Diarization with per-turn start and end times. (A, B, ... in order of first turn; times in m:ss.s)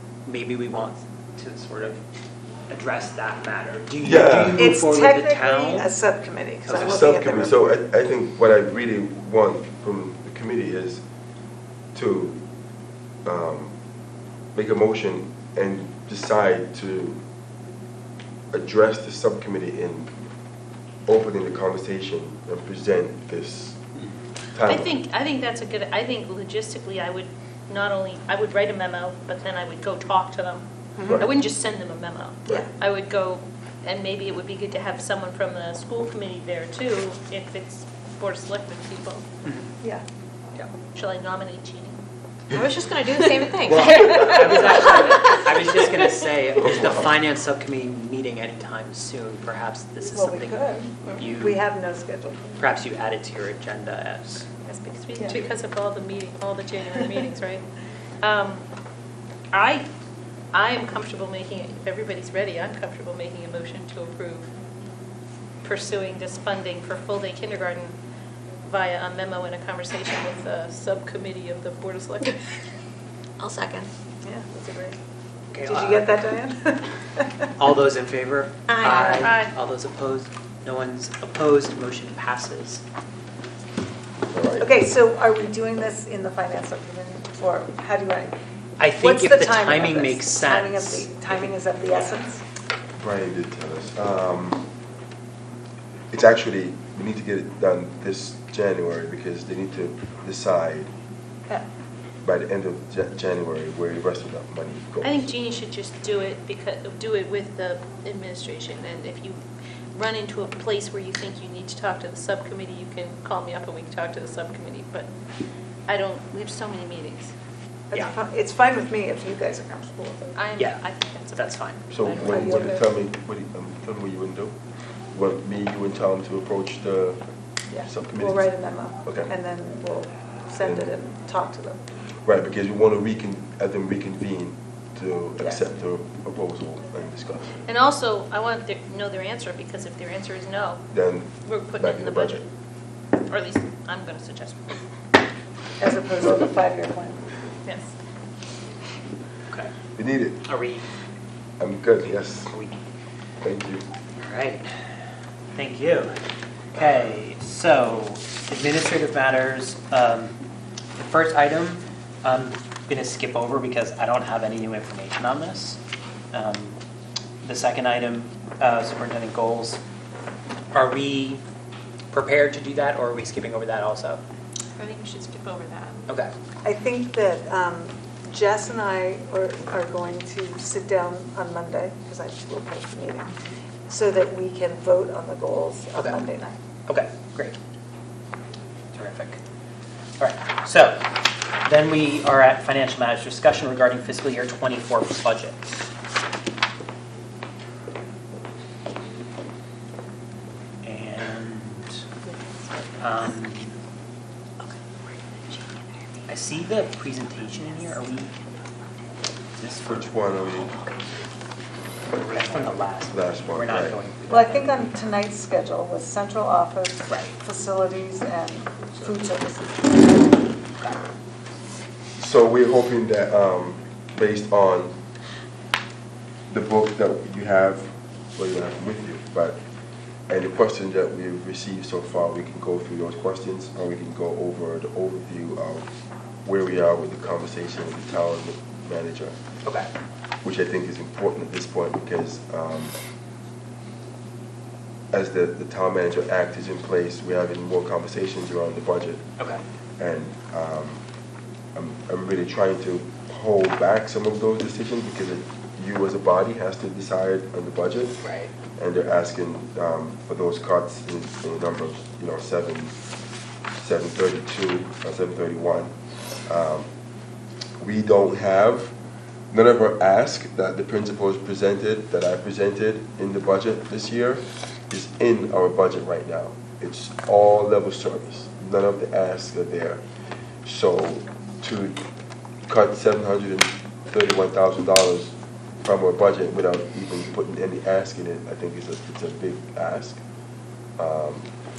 0:00.2-0:02.0 A
0:02.7-0:05.9 A
0:04.0-0:04.6 B
0:04.6-0:07.6 C
0:06.6-0:07.0 A
0:06.7-0:11.0 B
0:11.9-0:12.4 B
0:13.2-0:13.7 B
0:14.5-0:17.2 B
0:18.5-0:20.1 B
0:21.1-0:23.8 B
0:24.5-0:25.0 B
0:24.6-0:39.3 D
0:31.0-0:31.3 C
0:31.0-0:31.3 B
0:40.9-0:42.0 D
0:42.5-0:44.2 E
0:43.3-0:45.0 D
0:43.6-0:51.6 A
0:46.6-0:47.2 B
0:50.1-0:52.7 C
0:52.6-0:54.4 A
0:54.6-0:57.6 D
0:55.2-0:55.4 C
0:58.2-0:58.6 D
0:59.5-0:59.9 D
1:00.5-1:04.5 D
1:05.6-1:08.0 D
1:08.6-1:12.4 D
1:13.4-1:13.9 E
1:14.2-1:15.0 C
1:15.5-1:16.1 A
1:15.6-1:17.5 C
1:17.6-1:22.8 A
1:18.8-1:19.2 E
1:18.8-1:19.2 C
1:19.0-1:19.5 D
1:24.3-1:24.7 B
1:24.6-1:28.3 C
1:28.8-1:31.5 A
1:28.9-1:32.4 C
1:33.0-1:34.6 B
1:36.1-1:40.9 B
1:42.2-1:45.3 B
1:45.0-1:49.4 D
1:49.9-1:55.1 D
1:55.9-1:57.3 D
1:57.9-2:00.4 C
2:00.4-2:02.7 D
2:00.6-2:00.8 A
2:01.3-2:01.8 A
2:01.9-2:04.5 B
2:02.2-2:02.9 C
2:05.1-2:07.2 B
2:07.7-2:11.8 C
2:07.8-2:08.5 B
2:09.0-2:09.3 B
2:10.6-2:10.9 B
2:12.2-2:17.6 B
2:17.6-2:20.8 D
2:20.9-2:22.4 B
2:21.4-2:22.4 D
2:23.2-2:24.8 D
2:25.8-2:27.2 C
2:26.2-2:26.5 B
2:27.6-2:27.9 D
2:30.0-2:30.4 B
2:30.4-2:30.8 A
2:31.6-2:32.5 B
2:33.4-2:33.8 B
2:34.2-2:34.7 A
2:35.5-2:36.2 A
2:36.7-2:40.4 A
2:41.0-2:45.8 A
2:46.3-2:46.8 A
2:47.4-2:49.8 A
2:50.7-2:51.4 A
2:52.1-2:54.2 A
2:54.7-2:56.0 D
2:56.6-3:03.3 C
3:03.9-3:06.6 C
3:05.9-3:06.2 A
3:06.8-3:07.6 A
3:08.9-3:09.4 A
3:10.2-3:15.7 A
3:20.8-3:22.0 A
3:23.0-3:23.8 A
3:26.3-3:28.3 A
3:29.6-3:30.1 A
3:29.8-3:30.8 B
3:32.1-3:34.9 A
3:33.1-3:34.0 B
3:34.3-3:40.6 C
3:37.1-3:37.4 A
3:42.2-3:45.0 B
3:46.5-3:49.6 B
3:50.3-3:55.9 B
3:56.4-3:59.4 B
3:59.6-3:59.9 A
4:00.4-4:02.9 B
4:05.1-4:09.3 B
4:10.0-4:11.0 B
4:11.7-4:18.2 B
4:18.2-4:18.5 A
4:18.8-4:22.9 B
4:23.8-4:25.9 B
4:26.5-4:26.9 B
4:27.8-4:28.9 B
4:29.5-4:40.0 B
4:40.6-4:42.0 B
4:42.7-4:50.2 B
4:51.0-4:51.5 B